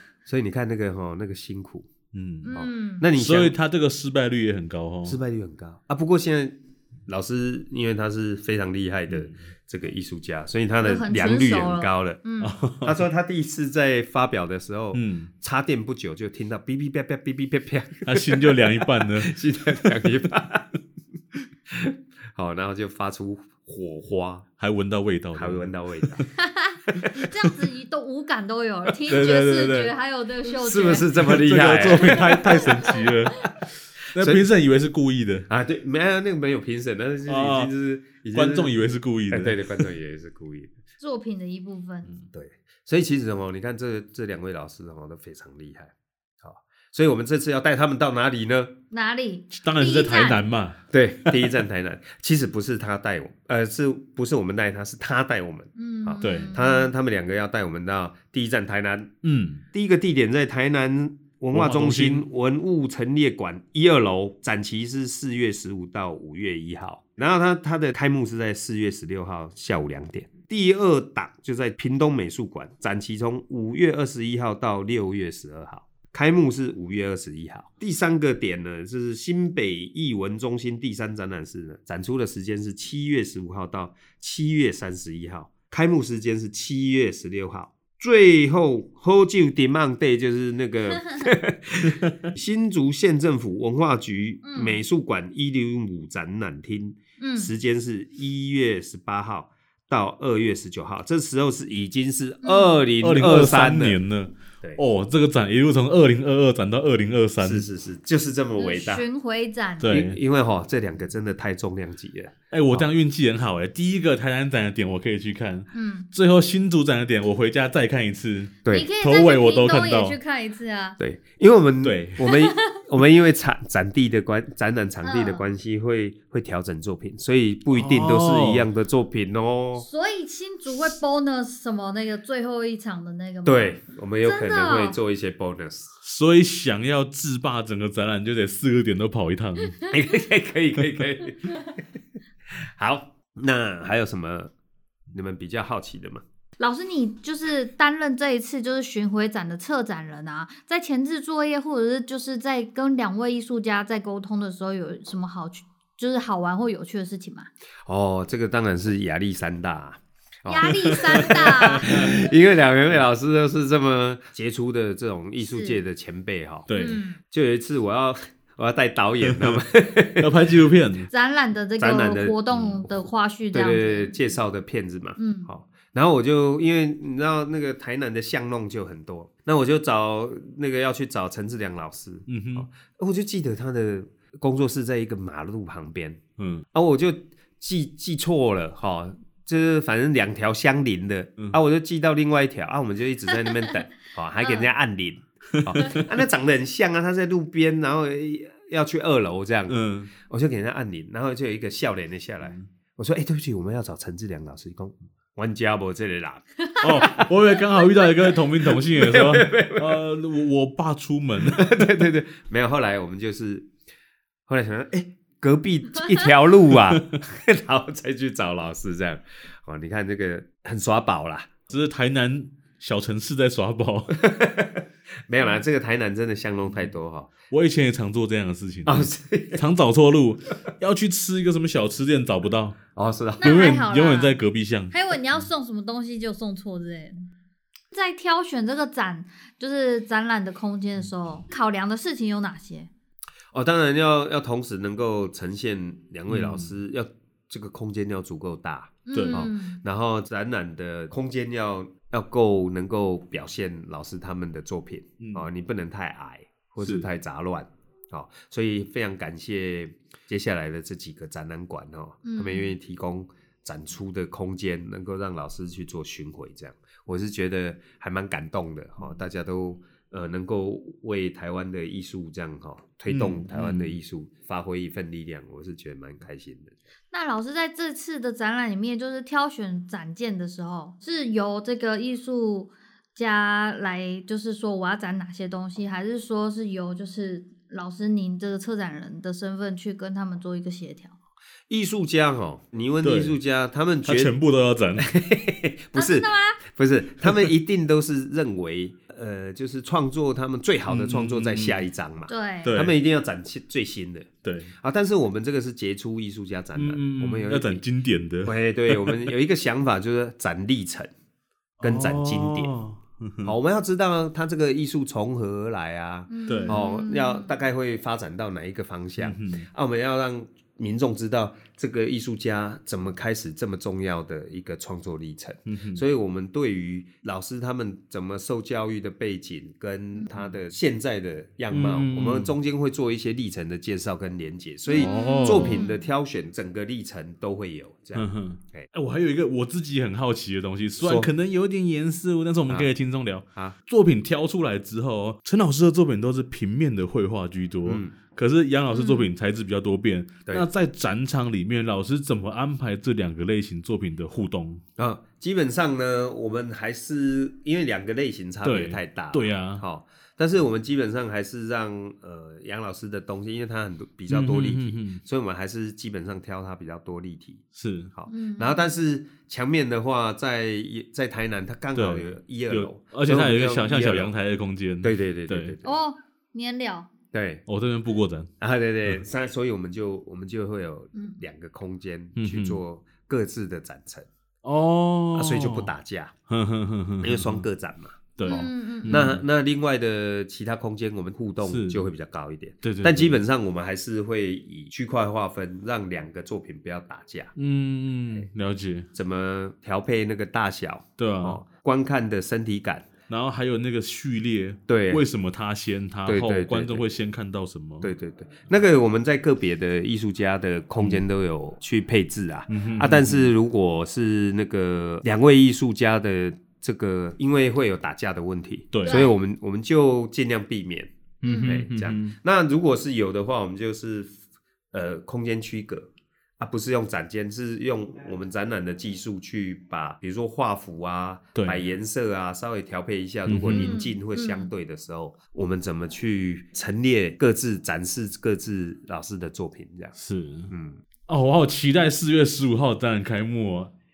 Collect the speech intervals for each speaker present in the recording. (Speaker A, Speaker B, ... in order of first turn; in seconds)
Speaker A: 0.2-1.9, 2.5-3.5, 5.0-12.2, 12.8-20.8, 21.7-24.4, 25.3-26.2, 30.6-32.7, 34.1-34.4, 35.5-38.7, 39.3-40.7, 42.3-48.8, 50.9-59.1, 59.7-104.0, 107.4-109.0, 109.9-112.9, 121.0-129.9, 133.4-135.9, 139.9-141.6, 142.6-144.5, 145.1-146.2, 157.9-170.3, 171.8-172.8, 173.5-186.2, 186.7-207.3, 208.6-210.0, 211.4-213.7, 214.5-221.6, 224.1-227.3, 228.9-229.6, 232.9-233.6, 243.5-276.7, 291.7-294.4, 295.0-307.8, 308.4-311.1, 311.8-312.7, 313.4-338.9, 341.0-341.3, 347.9-348.1, 355.0-367.6, 368.1-374.3, 375.0-376.0, 377.3-377.6, 378.6-384.3, 385.3-386.3, 387.2-397.5, 399.1-403.1, 404.9-405.2, 406.2-407.0, 408.0-424.3, 424.9-426.1, 426.6-440.1, 440.7-441.0
Speaker B: 2.1-2.5, 3.1-5.2, 9.1-9.4, 12.4-13.0, 14.9-15.3, 18.1-20.0, 24.6-26.2, 27.2-27.5, 29.1-29.9, 31.1-35.5, 37.3-37.7, 38.3-39.9, 49.5-51.3, 56.2-56.5, 59.2-59.6, 61.5-62.2, 103.0-107.6, 109.8-110.2, 112.5-120.2, 121.8-122.2, 127.7-128.7, 136.0-139.8, 160.6-162.2, 166.7-167.0, 169.2-169.6, 170.2-171.1, 182.3-182.7, 186.4-186.6, 195.6-196.0, 199.7-200.1, 206.8-211.8, 216.7-217.0, 221.7-224.2, 227.5-232.8, 233.4-234.9, 246.3-246.7, 249.1-249.5, 255.2-255.5, 256.8-257.1, 273.1-274.0, 293.0-293.4, 294.1-295.1, 300.9-301.8, 302.6-302.9, 304.4-304.7, 306.7-309.3, 311.8-313.5, 316.5-316.8, 319.2-319.7, 325.6-326.0, 331.7-332.6, 334.9-335.9, 338.1-354.8, 358.6-359.8, 364.3-365.2, 367.7-368.1, 371.9-375.7, 377.7-378.5, 382.4-382.8, 384.6-385.9, 386.5-387.6, 388.4-389.4, 391.6-392.1, 392.8-393.4, 397.6-399.1, 401.2-401.6, 403.3-408.1, 411.0-411.2, 412.7-413.5, 418.9-419.3, 421.4-422.4, 431.6-431.9, 433.5-433.9, 440.2-440.7, 441.3-443.9
Speaker C: 2.4-3.0, 10.8-12.5, 26.4-31.1, 31.9-33.3, 41.0-42.1, 48.9-50.4, 55.8-56.9, 94.4-94.8, 97.2-97.5, 102.4-102.8, 108.6-109.9, 115.7-116.1, 118.7-121.0, 122.2-122.6, 125.0-125.4, 129.8-135.0, 146.6-157.5, 160.5-162.1, 165.4-165.8, 166.8-167.2, 171.1-174.2, 175.2-175.5, 194.4-194.7, 233.4-234.4, 234.9-237.3, 237.9-242.9, 249.1-249.8, 262.2-262.7, 277.1-291.1, 295.9-296.6, 302.3-302.7, 316.3-317.5, 334.9-336.1, 348.9-349.3, 368.3-368.8, 375.8-377.1, 388.5-389.3, 419.1-419.4, 421.4-421.7, 433.7-434.7